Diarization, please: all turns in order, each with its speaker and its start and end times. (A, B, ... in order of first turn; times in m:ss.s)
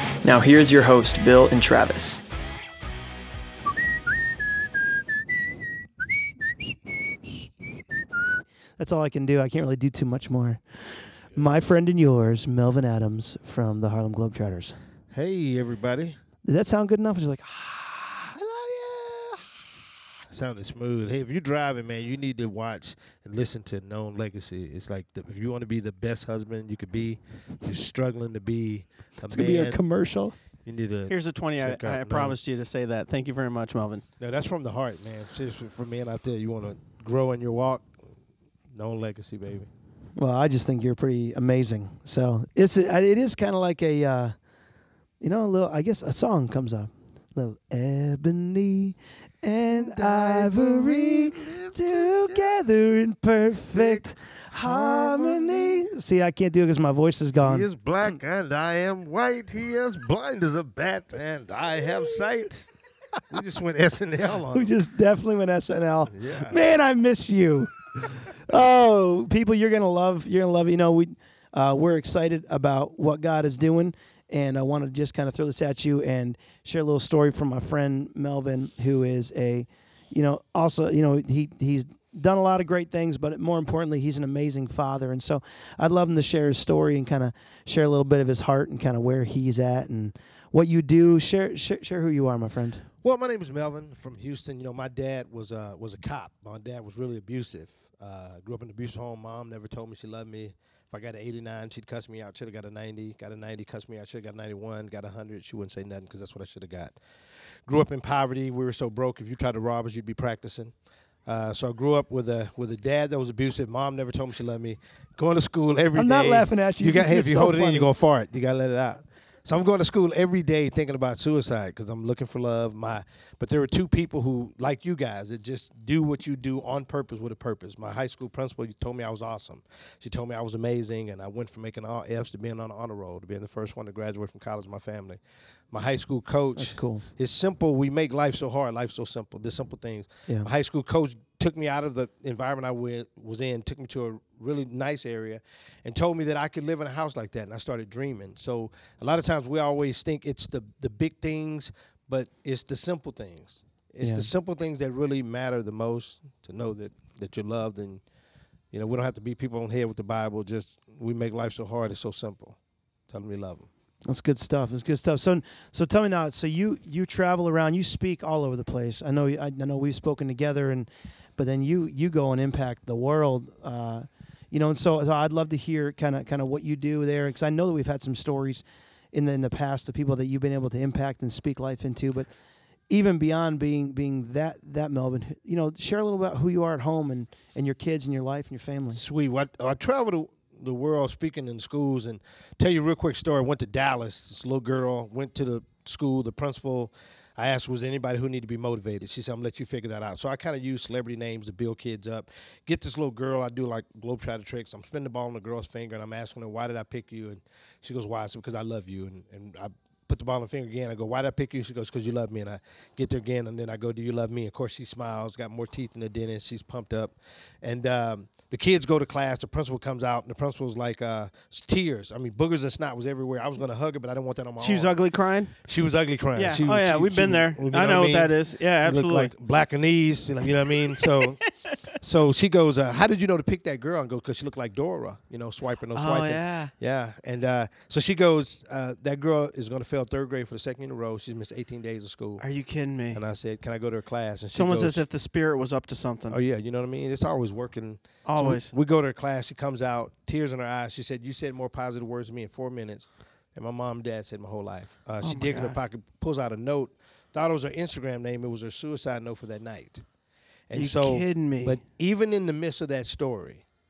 0:00.2-0:02.2 A
0:08.8-0:14.8 B
0:15.1-0:16.2 C
0:16.4-0:19.4 B
0:20.3-0:29.8 C
0:29.3-0:30.4 B
0:30.7-0:32.4 C
0:31.1-0:34.0 D
0:34.2-0:38.0 C
0:38.7-0:39.7 C
0:40.2-0:44.4 B
0:45.2-0:57.7 B
0:49.7-0:52.5 C
0:53.7-0:55.8 C
0:57.4-1:02.7 C
1:03.3-1:04.7 C
1:04.5-1:32.8 B
1:06.1-1:06.6 C
1:33.0-1:47.0 C
1:47.7-1:50.7 C
1:51.3-2:15.2 C
1:55.9-1:57.9 B
2:15.7-2:38.0 C
2:16.6-2:17.0 B
2:34.0-2:34.3 B
2:38.7-2:42.6 C
2:43.1-2:43.7 C
2:44.1-3:02.3 B
3:02.9-3:09.0 B
3:08.9-3:45.0 C
3:44.6-3:45.6 D
3:45.6-3:51.4 C
3:46.4-3:49.3 D
3:51.0-3:51.8 D
3:52.0-4:02.4 C
3:55.9-3:56.7 D
4:02.4-4:03.2 D
4:03.1-4:05.0 C
4:04.6-4:06.4 D
4:06.3-4:20.0 C
4:08.3-4:08.7 D
4:15.2-4:15.8 D
4:20.7-4:23.6 C
4:20.7-4:21.8 D